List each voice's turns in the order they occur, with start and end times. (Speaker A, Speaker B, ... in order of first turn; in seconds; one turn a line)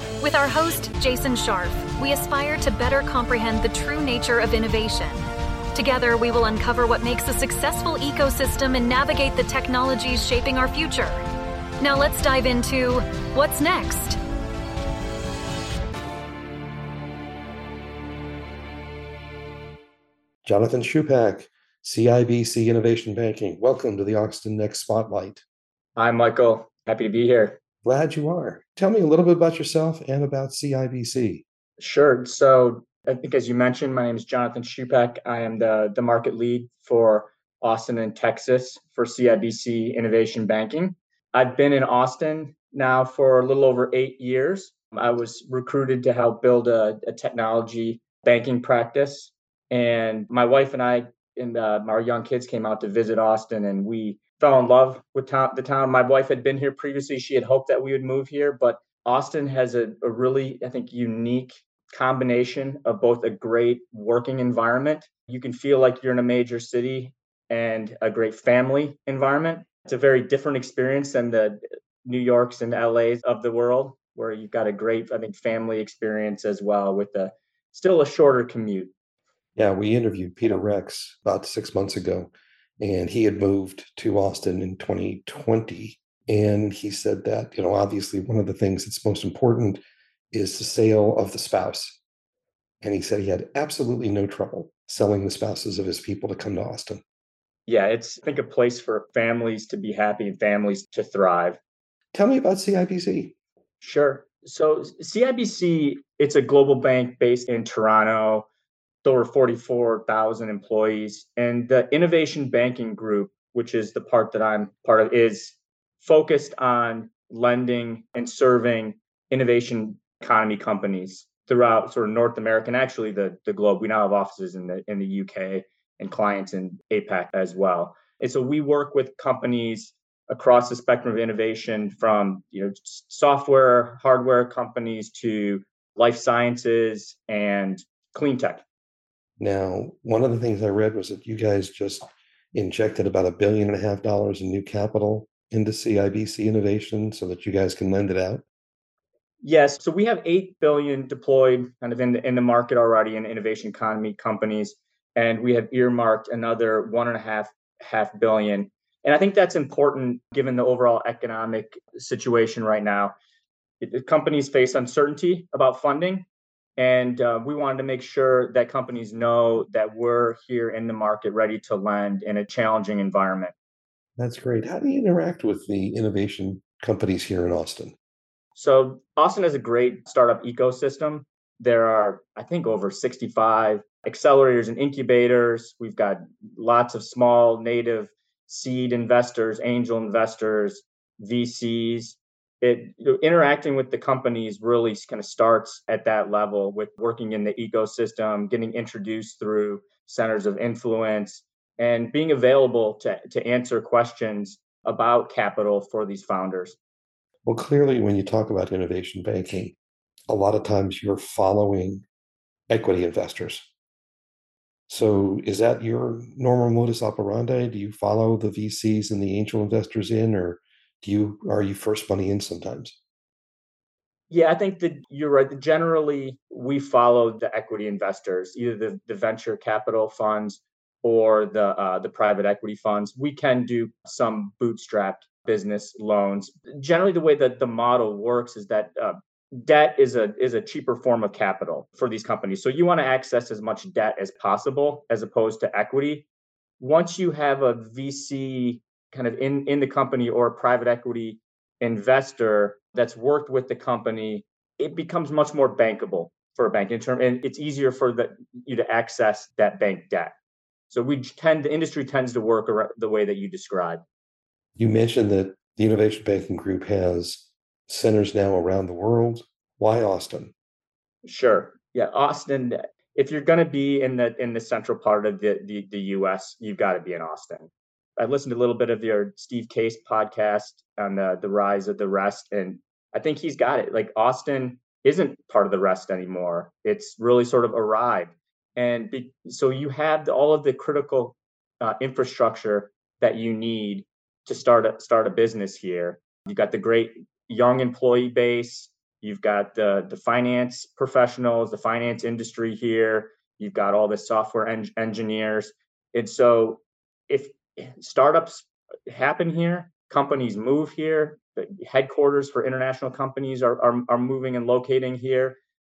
Speaker A: 0.2-11.2
Speaker A: 11.8-14.2
Speaker B: 20.4-25.4
Speaker C: 25.9-27.6
Speaker B: 27.8-31.4
Speaker C: 31.8-78.9
Speaker B: 79.5-92.0
Speaker B: 92.8-97.0
Speaker C: 97.7-101.6
Speaker B: 102.1-103.3
Speaker C: 103.8-108.5
Speaker C: 109.0-138.6
Speaker B: 139.4-148.4
Speaker C: 149.4-163.1
Speaker C: 163.8-166.2
Speaker C: 166.8-173.5
Speaker B: 174.2-177.9
Speaker C: 178.5-206.8
Speaker B: 207.4-209.8
Speaker B: 210.3-212.0
Speaker B: 212.7-213.7
Speaker B: 214.9-223.0
Speaker C: 224.3-246.3
Speaker C: 246.8-260.3
Speaker C: 260.9-264.0
Speaker B: 264.8-270.5
Speaker C: 271.2-315.6